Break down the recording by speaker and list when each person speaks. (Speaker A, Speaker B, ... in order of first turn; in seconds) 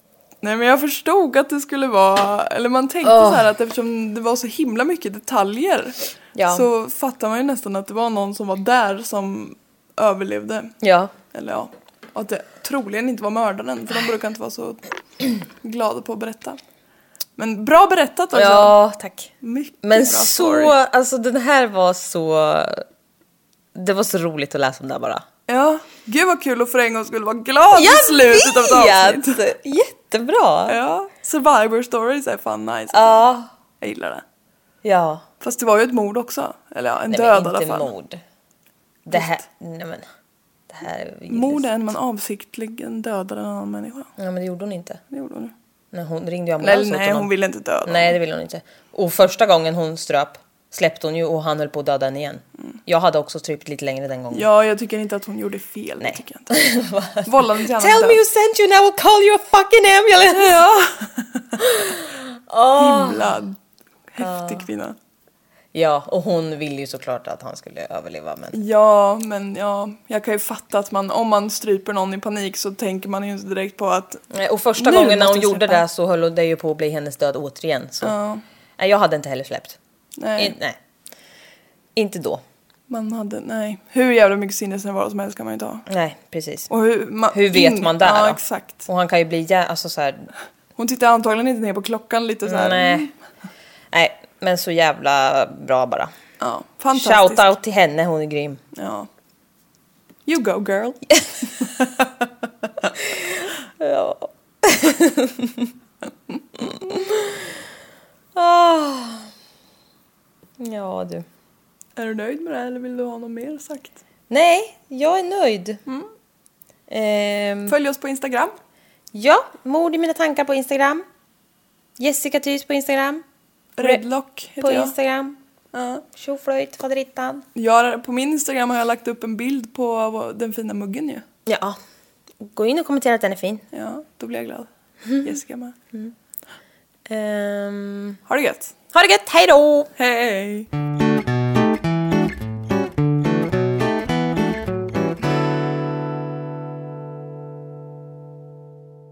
Speaker A: 0.4-10.8, 11.3-14.8, 15.4-16.6, 17.4-18.8, 19.4-20.8, 25.5-29.4, 30.7-33.2, 33.8-34.2, 35.4-37.9, 39.1-39.4, 41.3-44.1, 45.1-45.5, 46.6-48.2, 54.3-56.7, 57.2-58.2, 60.3-61.7, 62.8-63.6, 64.1-65.0, 68.5-74.2, 74.8-75.8, 78.0-78.4, 80.2-80.6, 82.9-85.9, 86.7-88.9, 90.8-93.1, 96.4-97.5, 98.7-99.1, 100.3-101.0, 112.0-114.0, 117.7-118.6, 123.8-124.9, 125.7-126.1, 127.6-131.2, 133.7-134.7, 135.2-135.8, 138.3-138.7, 140.0-140.7
Speaker B: 3.0-3.5, 6.4-6.7, 10.8-11.1, 18.3-19.3, 19.8-22.9, 23.7-25.2, 27.7-30.8, 32.9-33.5, 34.8-35.3, 37.1-38.2, 39.0-40.1, 40.7-41.7, 44.2-45.0, 45.9-47.3, 47.9-54.5, 56.0-60.6, 61.6-63.3, 64.2-64.7, 65.7-68.6, 74.3-78.2, 78.8-79.8, 80.4-80.8, 82.0-82.4, 85.9-86.7, 87.3-90.3, 92.5-93.1, 93.9-96.1, 96.9-98.6, 103.0-105.7, 106.6-107.6, 108.3-109.3, 110.6-111.3, 114.3-115.8, 116.9-117.8, 119.1-121.0, 122.0-123.2, 124.6-125.4, 126.2-127.5, 131.5-131.8, 132.4-133.7, 135.1-135.3, 137.1-138.2, 138.9-139.9